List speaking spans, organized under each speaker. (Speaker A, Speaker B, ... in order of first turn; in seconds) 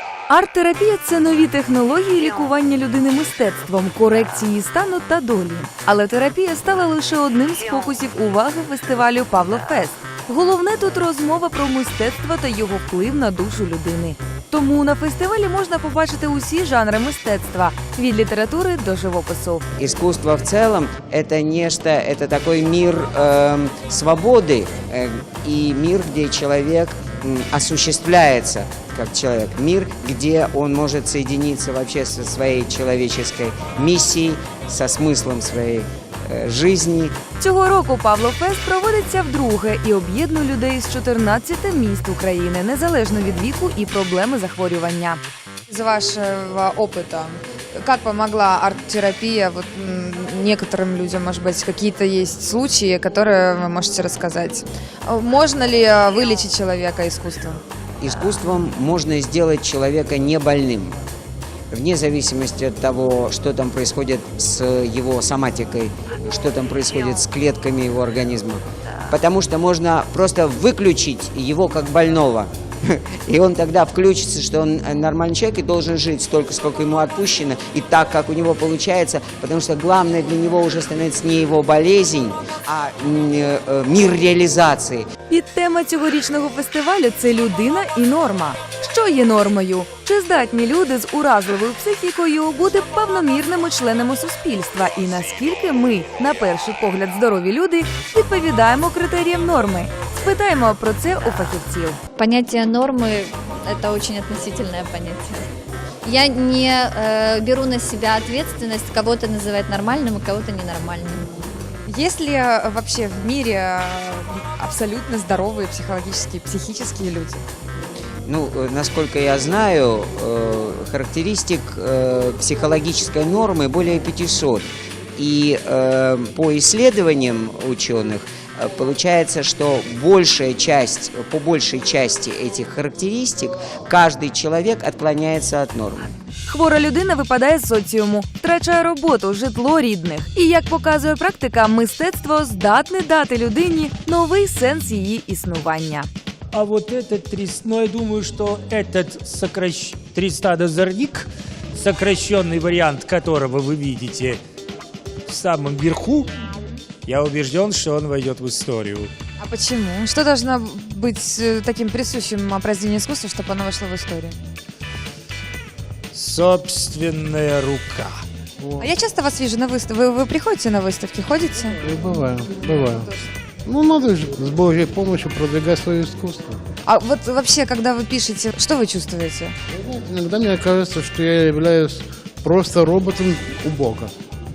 Speaker A: 0.3-19.6, 37.4-45.2, 85.3-102.0, 136.5-146.1
Speaker B: 19.8-37.1, 58.0-61.0, 61.7-85.1, 118.2-136.1
Speaker C: 45.7-57.6, 111.8-117.5, 159.4-164.4, 168.8-171.8, 176.8-179.5
Speaker D: 102.2-105.5, 106.0-111.3
Speaker E: 146.5-154.4, 155.2-156.3, 157.0-159.1, 166.1-168.2
Speaker F: 168.6-168.9, 171.8-176.6, 179.7-184.1